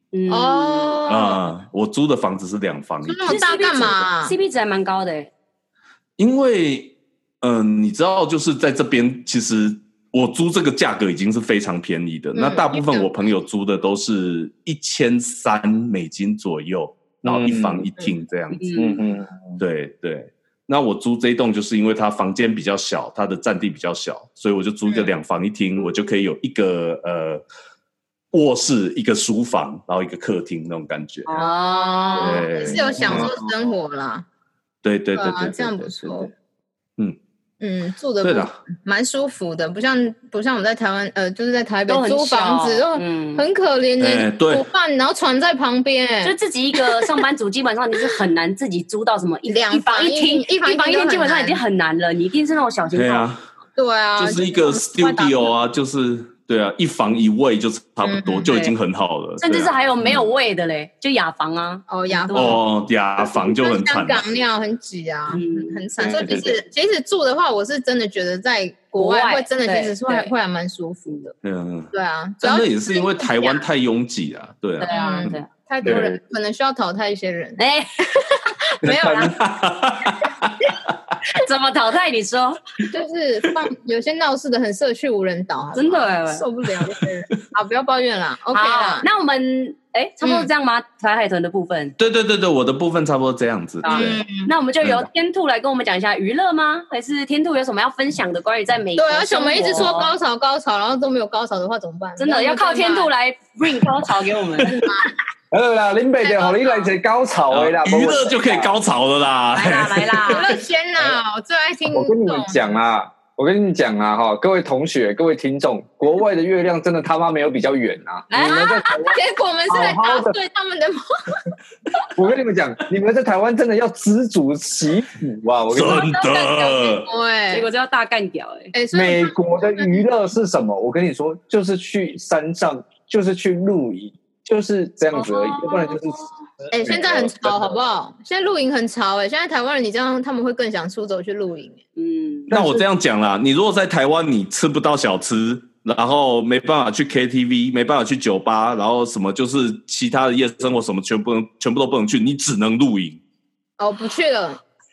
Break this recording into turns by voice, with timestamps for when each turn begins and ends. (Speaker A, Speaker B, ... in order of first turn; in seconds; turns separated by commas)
Speaker A: 0.1-1.1, Speaker B: 0.3-1.4, Speaker C: 1.1-3.3, Speaker B: 3.1-4.3, Speaker A: 3.3-5.3, Speaker C: 6.2-18.9, Speaker B: 12.3-13.1, Speaker D: 17.2-17.9, Speaker A: 18.5-19.0, Speaker D: 18.8-19.6, Speaker C: 19.6-27.4, Speaker C: 28.3-31.3, Speaker A: 31.3-32.8, Speaker B: 31.3-34.3, Speaker C: 32.1-33.3, Speaker D: 32.9-33.4, Speaker C: 34.8-36.3, Speaker B: 35.1-36.3, Speaker B: 37.6-46.4, Speaker C: 38.2-38.6, Speaker A: 41.9-43.5, Speaker C: 44.0-44.6, Speaker A: 46.2-53.3, Speaker B: 49.5-51.6, Speaker C: 52.9-53.5, Speaker B: 53.8-55.5, Speaker C: 54.2-60.2, Speaker B: 58.0-58.5, Speaker A: 58.5-58.8, Speaker A: 59.4-62.6, Speaker B: 61.9-62.6, Speaker C: 62.3-64.3, Speaker B: 63.2-71.3, Speaker A: 65.3-65.8, Speaker D: 66.0-66.5, Speaker A: 69.0-70.3, Speaker C: 71.4-71.9, Speaker B: 71.9-73.7, Speaker C: 72.4-76.1, Speaker A: 74.8-75.5, Speaker B: 74.9-77.6, Speaker D: 75.8-76.2, Speaker A: 77.6-78.4, Speaker B: 78.7-79.4, Speaker C: 78.8-81.1, Speaker A: 81.3-82.6, Speaker B: 82.9-89.1, Speaker A: 85.8-86.5, Speaker A: 88.5-92.0, Speaker B: 90.2-90.5, Speaker C: 92.0-94.2, Speaker A: 93.8-100.2, Speaker B: 93.9-94.5, Speaker C: 94.8-95.1, Speaker B: 99.0-103.1, Speaker A: 102.2-104.8, Speaker B: 104.6-105.1, Speaker D: 105.5-108.7, Speaker B: 106.2-106.9, Speaker C: 107.5-110.5, Speaker A: 109.5-110.5, Speaker B: 110.3-112.7, Speaker D: 111.9-119.2, Speaker A: 118.3-119.1, Speaker B: 118.4-121.5, Speaker D: 119.7-120.4, Speaker D: 122.2-126.2, Speaker C: 125.7-127.1, Speaker A: 126.0-126.5, Speaker B: 126.1-127.7, Speaker A: 127.5-128.7, Speaker B: 128.7-130.1, Speaker D: 128.9-137.8, Speaker A: 135.1-136.3, Speaker B: 136.7-141.8, Speaker A: 142.0-142.5, Speaker D: 142.5-142.9, Speaker C: 142.5-153.2, Speaker B: 153.8-154.6